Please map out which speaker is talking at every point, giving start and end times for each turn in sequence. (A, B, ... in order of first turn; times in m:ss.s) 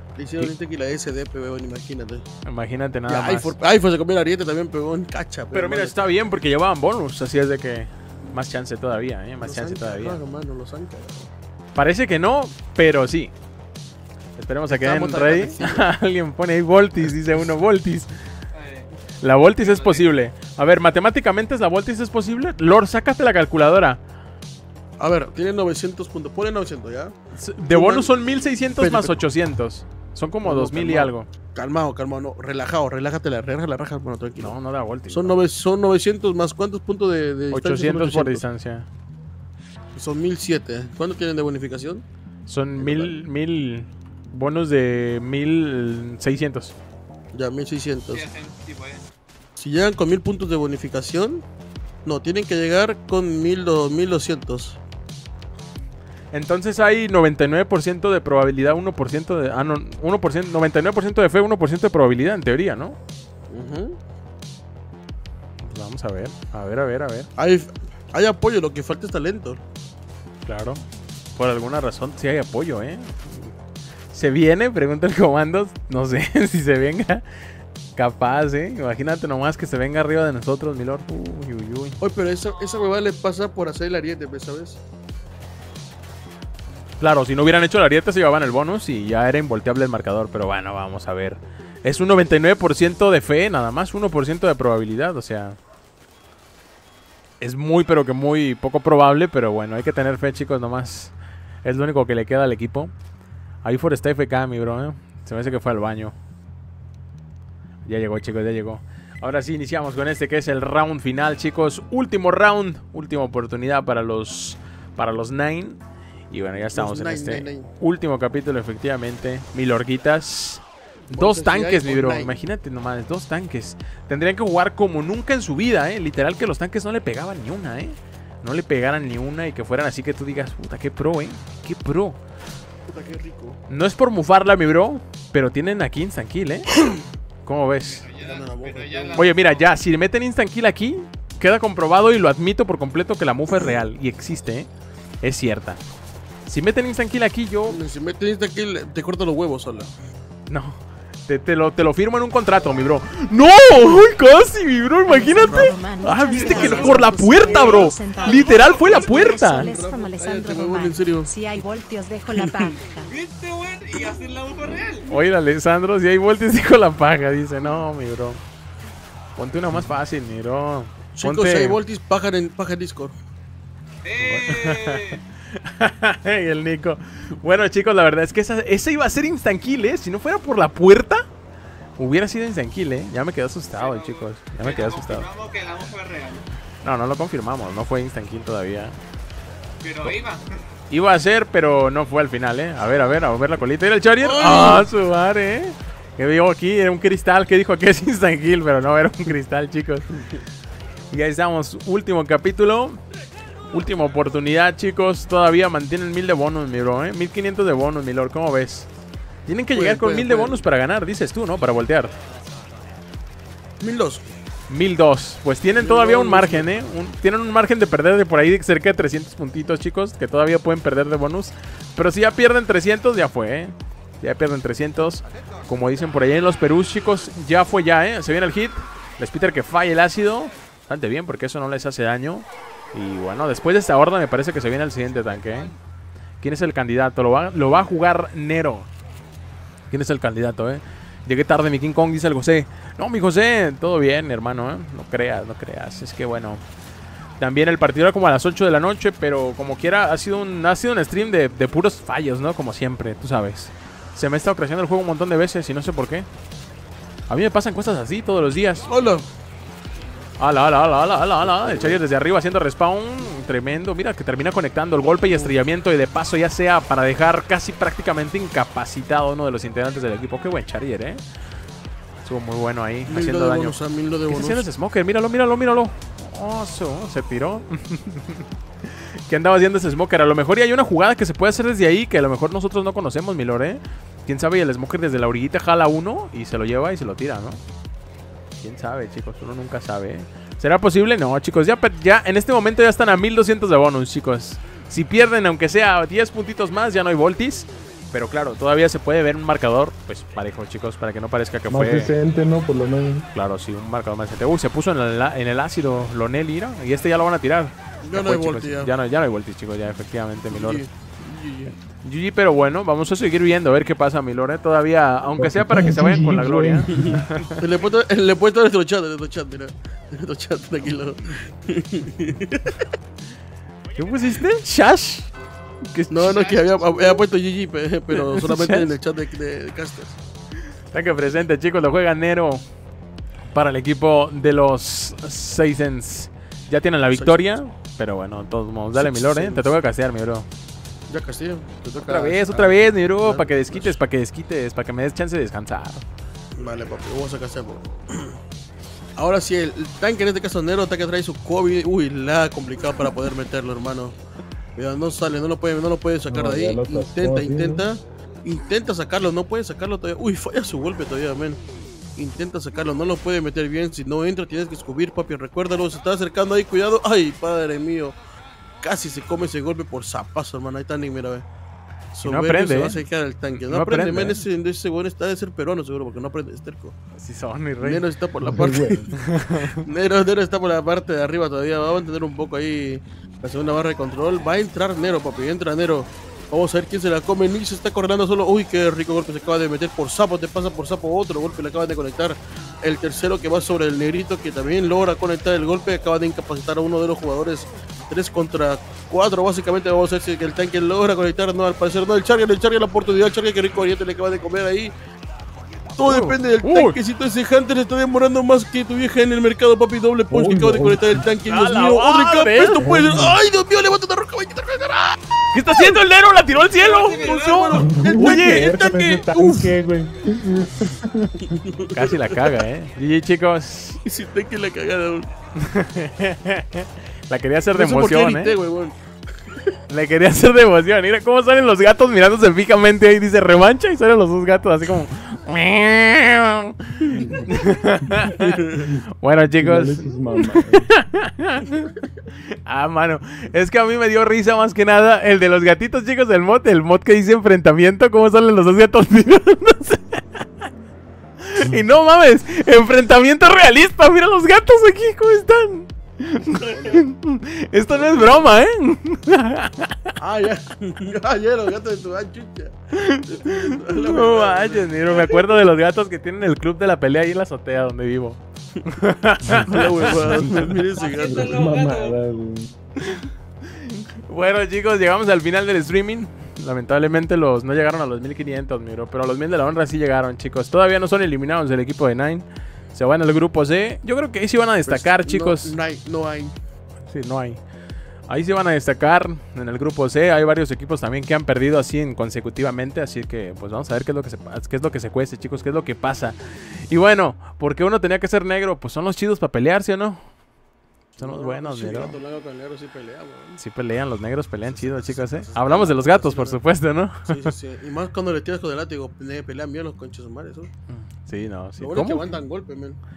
0:00.2-0:02.2 A
0:02.4-0:03.5 B
0:03.1-0:06.0 A
0:05.5-0:10.2 B
0:09.4-0:11.3 A
0:11.7-0:13.3 B
0:14.4-0:18.1 B
0:14.7-0:15.9 A
0:18.5-0:18.9 C
0:19.2-0:24.0 B
0:19.6-0:20.1 C
0:25.0-0:27.1 A
0:27.3-0:31.3 B
0:27.7-0:28.1 A
0:28.8-0:29.2 A
0:30.4-0:34.6 A
0:34.4-0:35.4 B
0:35.1-0:38.4 A
0:37.5-0:38.9 B
0:39.9-0:42.0 A
0:42.5-0:46.7 B
0:42.8-0:43.2 A
0:47.3-0:48.3 A
0:48.1-0:49.0 C
0:49.6-0:51.4 A
0:52.0-0:54.8 A
0:56.3-1:03.0 B
1:03.5-1:04.0 A
1:05.6-1:07.3 B
1:07.4-1:09.6 A
1:10.4-1:10.8 B
1:11.4-1:13.5 B
1:14.1-1:17.2 B
1:18.0-1:22.0 B
1:22.0-1:24.8 A
1:27.0-1:35.6 B
1:37.4-1:42.9 B
1:43.6-1:46.1 B
1:47.8-1:55.8 B
1:56.3-2:12.2 B
1:56.7-1:57.7 A
2:01.1-2:02.3 A
2:12.9-2:13.6 A
2:13.7-2:16.7 B
2:17.4-2:18.1 B
2:17.8-2:19.7 C
2:18.2-2:19.3 A
2:19.2-2:24.7 B
2:25.2-2:25.8 B
2:26.5-2:27.8 B
2:27.7-2:29.9 A
2:30.5-2:39.7 B
2:35.1-2:43.1 D
2:35.4-2:35.8 A
2:36.3-2:37.5 A
2:36.4-2:39.6 C
2:38.9-2:41.3 A
2:42.3-2:42.7 A
2:43.0-2:45.1 C
2:45.1-2:48.4 B
2:49.4-2:51.8 B
2:51.1-2:53.1 A
2:54.0-2:55.2 C
2:54.2-3:01.2 B
3:02.0-3:05.3 B
3:03.7-3:06.4 C
3:06.8-3:09.0 B
3:09.8-3:10.5 C
3:10.9-3:20.1 B
3:14.2-3:14.8 A
3:21.1-3:23.0 B
3:23.7-3:28.9 B
3:29.5-3:32.1 B
3:29.7-3:30.6 A
3:33.8-3:34.3 A
3:34.7-3:55.7 B
3:35.8-3:36.8 A
3:56.4-3:58.9 B
3:59.9-4:06.6 B
4:07.4-4:16.3 B
4:17.3-4:18.9 B
4:18.9-4:19.2 A
4:20.4-4:31.2 B
4:21.4-4:22.0 A
4:25.2-4:25.5 A
4:32.2-4:33.8 B
4:33.1-4:34.6 A
4:34.3-4:47.6 B
4:48.6-5:02.1 B
5:01.7-5:03.3 E
5:03.3-5:10.8 B
5:08.0-5:08.9 A
5:10.5-5:11.7 A
5:12.0-5:17.6 B
5:15.4-5:17.2 E
5:17.0-5:22.9 A
5:24.0-5:25.3 B
5:25.9-5:26.5 B
5:26.1-5:30.2 A
5:26.2-5:27.2 C
5:28.1-5:29.0 B
5:30.9-5:32.6 B
5:33.5-5:40.5 B
5:37.1-5:37.4 A
5:38.9-5:39.7 A
5:41.1-5:44.0 A
5:42.0-5:46.0 B
5:46.6-5:48.4 A
5:49.2-5:54.2 A
5:54.8-6:01.6 A
5:56.3-5:57.9 E
6:02.2-6:08.2 A
6:08.8-6:11.4 A
6:12.1-6:16.9 A
6:12.2-6:13.0 B
6:13.5-6:14.4 B
6:17.1-6:18.0 B
6:17.8-6:19.1 A
6:18.4-6:19.1 E
6:19.2-6:19.8 B
6:19.7-6:44.9 A
6:46.0-6:47.0 B
6:46.0-6:55.2 A
6:50.3-6:51.3 E
6:51.4-6:52.8 B
6:52.8-6:53.4 E
6:55.5-6:58.9 B
6:55.7-6:56.0 A
6:56.7-6:58.1 C
6:57.2-6:59.7 A
6:57.8-7:01.7 E
7:01.6-7:02.5 A
7:01.9-7:04.0 B
7:04.0-7:05.3 A
7:05.6-7:08.5 B
7:07.7-7:09.0 A
7:09.5-7:09.7 A
7:09.9-7:18.6 B
7:17.0-7:17.5 A
7:17.1-7:17.5 E
7:18.3-7:18.9 A
7:19.2-7:21.9 B
7:19.6-7:20.9 E
7:22.6-7:30.4 B
7:31.4-7:40.1 B
7:36.4-7:37.0 A
7:37.9-7:38.4 A
7:40.2-7:45.6 A
7:42.9-7:48.4 B
7:48.9-7:50.7 B
7:49.5-7:51.6 A
7:51.0-7:52.2 C
7:51.2-7:52.7 E
7:53.0-8:05.7 B
8:04.9-8:06.5 A
8:07.1-8:07.6 B
8:08.3-8:20.2 B
8:21.2-8:23.6 A
8:21.2-8:22.2 B
8:23.6-8:27.5 B
8:24.6-8:26.6 A
8:27.3-8:30.7 A
8:30.9-8:32.3 B
8:31.8-8:33.0 A